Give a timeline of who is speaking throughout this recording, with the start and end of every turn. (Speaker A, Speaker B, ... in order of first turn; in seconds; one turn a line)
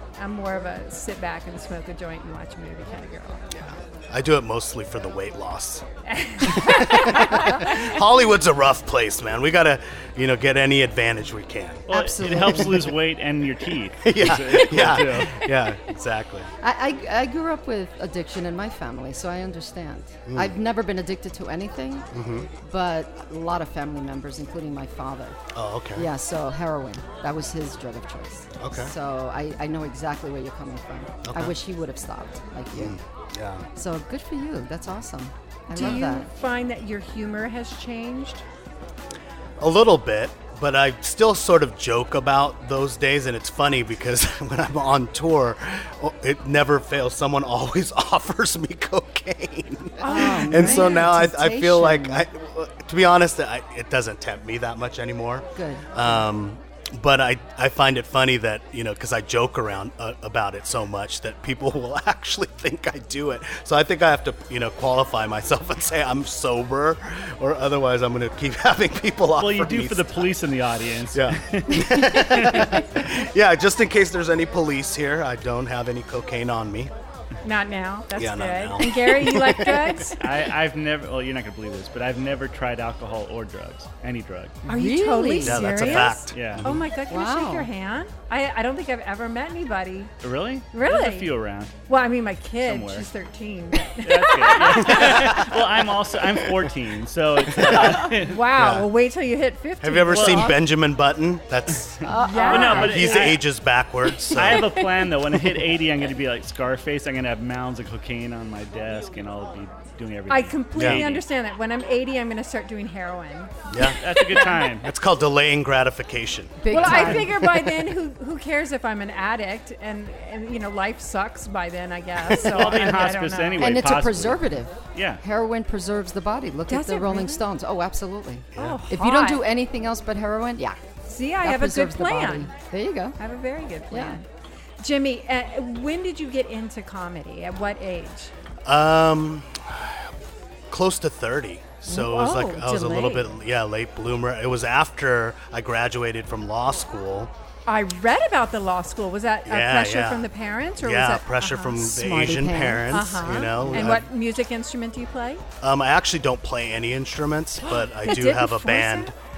Speaker A: 0.2-3.4
Speaker B: 3.5-5.8
Speaker A: 6.1-8.0
Speaker B: 6.4-11.9
Speaker C: 11.9-15.4
Speaker D: 11.9-13.0
Speaker B: 14.0-16.5
Speaker D: 16.6-22.1
Speaker B: 20.3-20.6
Speaker B: 22.1-22.5
Speaker D: 22.6-25.4
Speaker B: 25.5-26.1
Speaker D: 25.9-33.0
Speaker B: 28.6-28.9
Speaker B: 31.2-31.6
Speaker B: 32.7-33.6
Speaker D: 33.8-36.3
Speaker A: 35.7-38.4
Speaker B: 39.6-70.3
Speaker A: 50.0-51.1
Speaker D: 50.0-52.2
Speaker D: 55.5-56.2
Speaker C: 69.4-72.8
Speaker B: 71.1-76.9
Speaker D: 71.7-72.8
Speaker A: 77.4-80.2
Speaker B: 78.2-79.9
Speaker D: 78.8-80.1
Speaker C: 80.2-84.6
Speaker D: 84.6-86.0
Speaker A: 84.7-90.1
Speaker B: 85.4-86.8
Speaker C: 86.3-86.7
Speaker D: 87.1-87.7
Speaker C: 90.2-91.8
Speaker A: 90.7-91.3
Speaker A: 91.9-95.5
Speaker C: 92.6-93.1
Speaker C: 94.0-98.4
Speaker B: 94.9-95.5
Speaker B: 97.5-98.9
Speaker A: 97.8-100.6
Speaker B: 99.8-104.7
Speaker C: 100.1-100.6
Speaker D: 102.0-103.3
Speaker A: 102.1-103.3
Speaker C: 102.5-103.4
Speaker C: 104.3-111.2
Speaker D: 104.3-105.0
Speaker A: 110.3-114.6
Speaker B: 110.8-111.0
Speaker B: 113.7-117.2
Speaker C: 114.0-114.9
Speaker D: 116.6-117.9
Speaker A: 116.7-123.9
Speaker C: 122.3-125.2
Speaker D: 123.5-130.8
Speaker A: 126.7-127.4
Speaker A: 128.6-129.4
Speaker A: 131.1-132.5
Speaker D: 131.4-133.2
Speaker A: 133.2-134.2
Speaker D: 133.9-134.2
Speaker A: 134.8-138.3
Speaker B: 138.6-140.1
Speaker B: 140.7-147.3
Speaker A: 141.8-143.3
Speaker A: 147.7-151.8
Speaker B: 149.5-154.1
Speaker D: 151.8-154.0
Speaker A: 152.9-155.4
Speaker B: 155.6-159.1
Speaker A: 157.6-159.1